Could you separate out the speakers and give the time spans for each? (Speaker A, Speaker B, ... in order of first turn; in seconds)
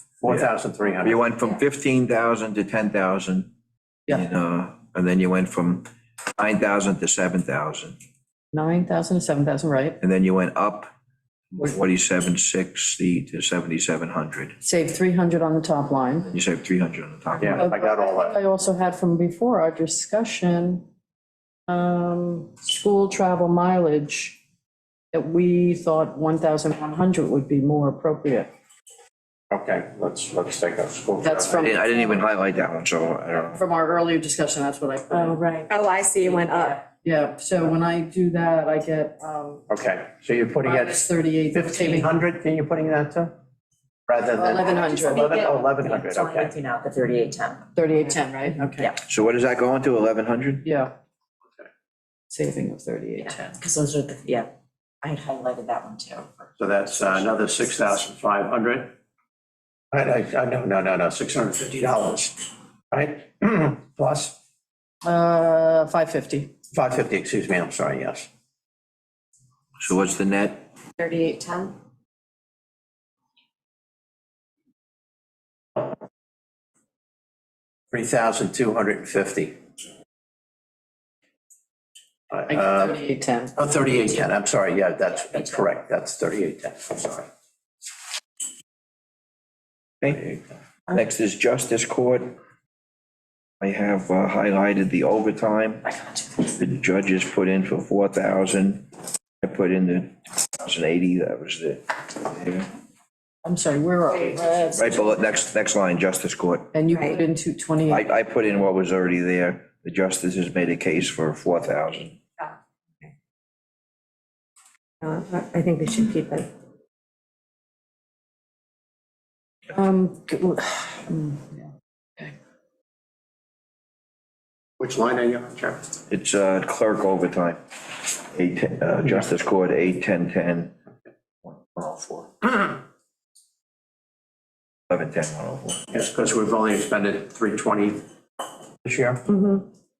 Speaker A: 0.2-1.2, 17.4-18.4, 29.5-31.7, 39.7-43.3, 44.1-46.5, 56.6-59.0, 59.9-64.4, 66.7-68.3, 77.9-79.6, 82.3-83.0, 83.6-87.3, 90.1-90.4, 124.8-125.8, 135.9-138.0, 138.8-139.2
Speaker B: 1.0-3.5, 4.1-5.9, 6.4-8.0, 10.0-10.9, 11.5-14.6, 16.3-17.6, 31.6-33.6, 49.1-50.6, 69.8-70.7, 90.0-90.3, 90.9-92.3, 93.6-98.9, 99.4-102.7, 104.7-106.7, 107.9-112.2, 126.1-130.8, 131.4-132.5, 134.9-135.9
Speaker C: 8.5-10.0, 14.6-16.3, 17.5-20.8, 21.7-24.4, 25.1-28.5, 31.2-32.2, 33.4-35.4, 37.0-39.6, 40.6-42.1, 44.3-45.4, 47.8-49.0, 50.6-50.9, 52.3-53.5, 65.0-66.5, 82.5-83.6, 103.4-105.2, 106.7-108.1, 119.7-122.3
Speaker D: 35.1-35.7, 36.2-36.7, 45.0-47.7, 53.2-54.5, 55.0-56.6, 85.1-85.6
Speaker E: 35.7-36.9, 71.0-71.5, 106.9-107.2, 115.0-116.5, 139.3-139.7